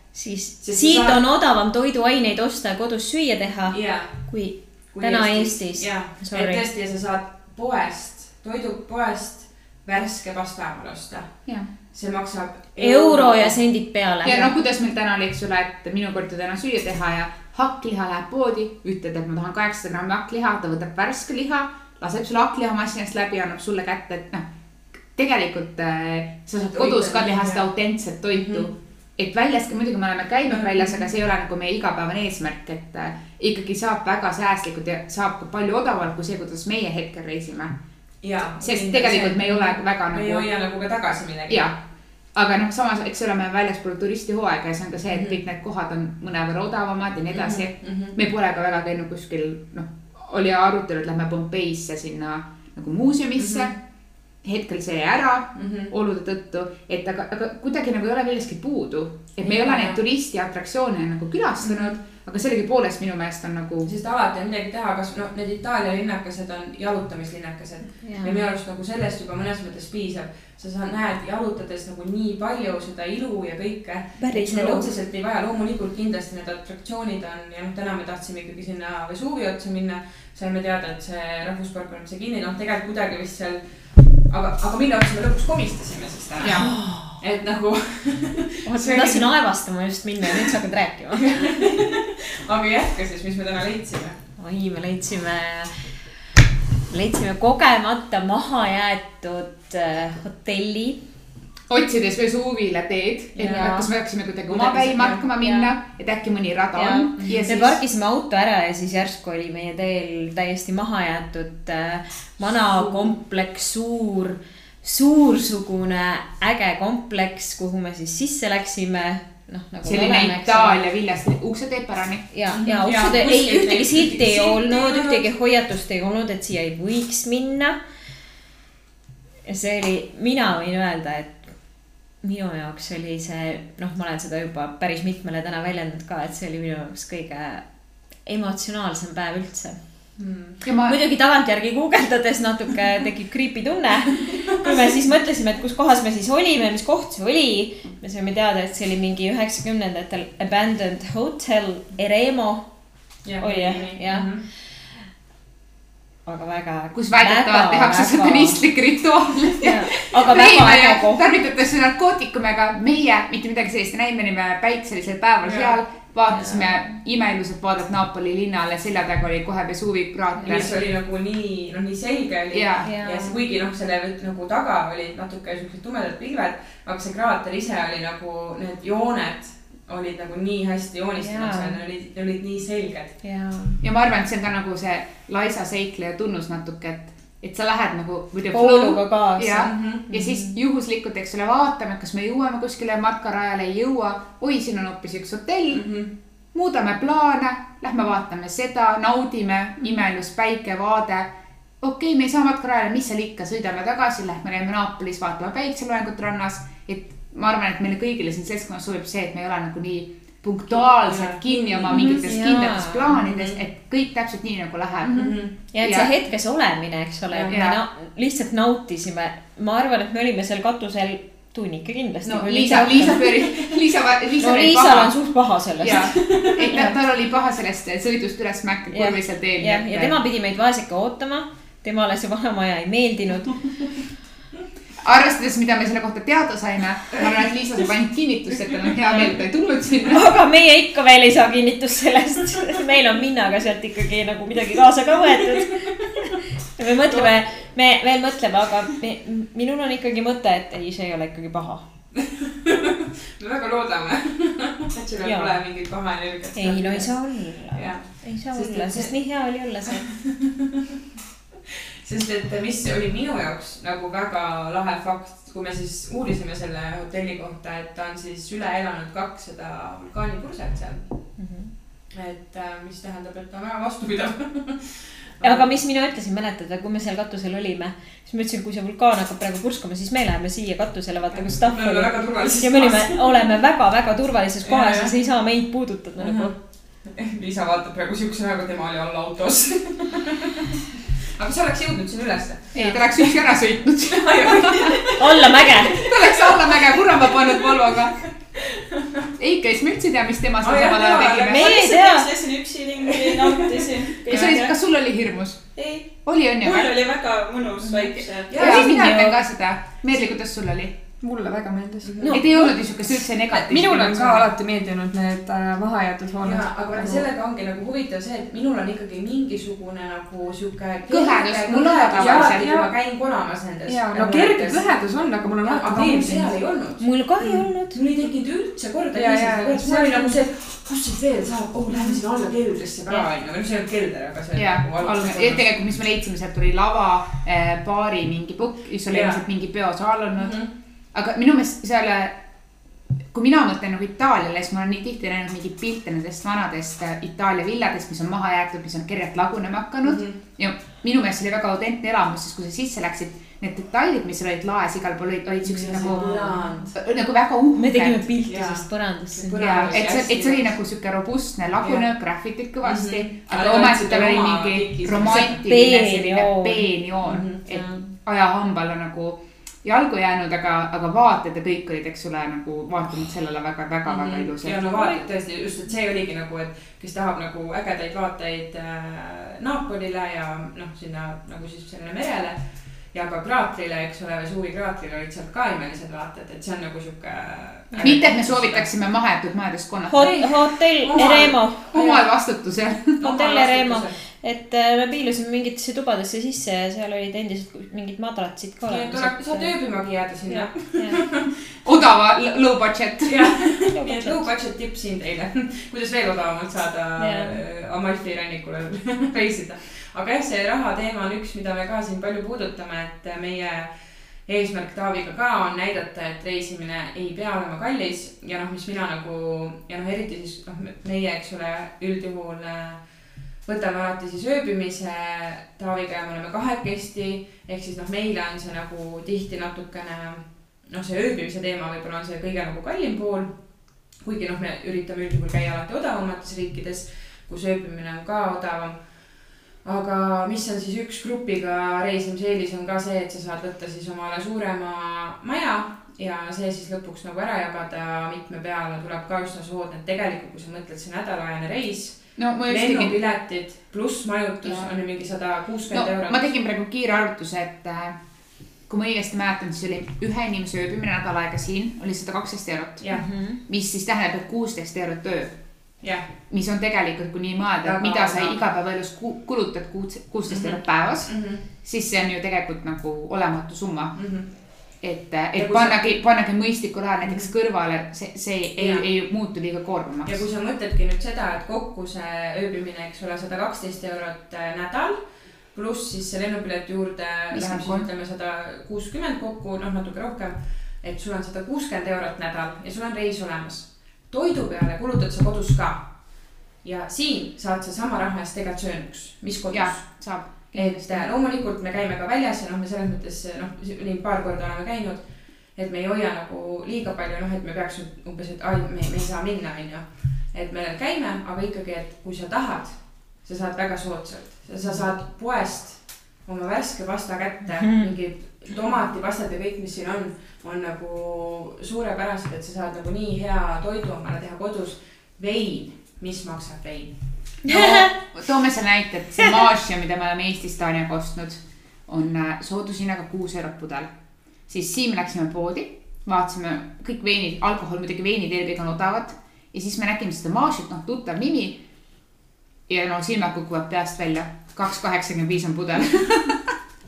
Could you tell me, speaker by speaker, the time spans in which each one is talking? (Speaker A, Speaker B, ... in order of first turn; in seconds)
Speaker A: 0.1-6.6, 12.8-14.5, 68.0-68.5, 74.2-74.9, 86.5-87.2, 88.7-91.5, 94.4-95.9, 96.9-101.0, 103.4-103.9, 105.4-105.7, 106.8-120.8, 122.3-127.8, 129.4-131.5, 132.2-137.6, 138.2-139.8, 140.9-152.7, 153.4-154.9, 156.3-158.6, 159.6-161.2, 172.8-173.4, 181.2-181.8, 183.2-183.8, 188.5-190.6, 211.9-213.2, 215.6-223.3, 224.4-226.6, 228.9-233.8, 240.1-251.8, 255.2-255.6, 256.6-260.1, 271.4-271.7, 275.4-286.5, 295.2-296.1, 301.4-302.4, 307.9-309.4, 327.0-328.0, 355.9-356.7, 357.8-360.0, 365.6-366.9, 387.9-388.2, 390.1-392.2, 393.2-399.8, 400.5-401.2, 403.9-404.5, 407.2-407.6, 463.1-463.6, 517.8-518.1, 527.7-528.1
Speaker B: 0.6-1.2, 3.7-4.2, 4.9-13.6, 26.7-27.6, 28.3-28.7, 30.5-31.0, 38.2-41.7, 45.1-45.4, 47.3-48.2, 53.4-53.7, 55.5-55.9, 59.4-60.0, 61.6-62.0, 63.8-83.6, 84.2-89.3, 91.2-94.2, 103.4-103.9, 104.5-105.2, 112.7-113.1, 122.5-125.2, 140.2-140.6, 144.3-144.7, 153.2-154.4, 165.4-165.8, 170.4-183.2, 189.6-190.0, 195.7-196.1, 210.9-212.3, 213.2-213.6, 215.1-215.6, 217.3-217.6, 225.9-226.6, 252.2-259.1, 260.1-260.7, 262.0-271.1, 272.1-275.7, 281.3-283.3, 284.6-285.1, 286.2-290.8, 291.4-293.5, 294.1-298.0, 298.6-299.3, 300.6-304.7, 307.6-308.9, 312.0-312.4, 316.4-335.7, 339.1-339.4, 340.4-340.7, 350.0-350.4, 355.7-356.9, 358.4-360.7, 361.8-362.1, 362.8-365.7, 367.2-368.0, 374.1-382.6, 383.1-388.9, 391.0-392.1, 393.2-394.2, 398.9-401.5, 403.2-413.9, 414.5-423.0, 423.6-433.6, 434.2-439.1, 439.8-456.5, 463.0-463.3, 467.8-468.6, 470.5-471.6, 474.1-474.5, 475.6-476.2, 477.2-477.5, 478.8-479.1, 480.2-496.2, 496.8-500.2, 500.7-527.2
Speaker C: 14.2-24.5, 25.1-37.8, 38.6-40.5, 41.5-41.8, 42.3-53.8, 54.4-63.9, 86.4-86.7, 101.7-107.8, 119.8-122.3, 140.6-141.0, 156.9-170.8, 172.5-172.9, 183.8-195.9, 196.5-216.1, 217.5-217.8, 222.2-225.2, 225.8-230.2, 235.0-240.3, 292.7-295.1, 296.0-298.2, 299.4-301.8, 304.3-307.1, 308.2-311.0, 312.3-314.5, 321.1-322.8, 334.6-340.6, 341.1-342.4, 343.3-358.3, 359.6-375.2, 388.0-390.4, 391.2-393.2, 401.8-403.5, 452.4-453.2, 454.6-454.9, 455.9-458.2, 458.9-465.6, 466.5-474.3, 475.0-480.4, 487.5-488.1, 499.7-501.3, 527.6-534.1, 534.7-541.8, 542.9-546.7
Speaker D: 301.2-304.7, 306.6-308.5
Speaker E: 311.2-312.4, 313.5-317.3, 322.2-322.9, 323.9-326.6, 329.1-330.4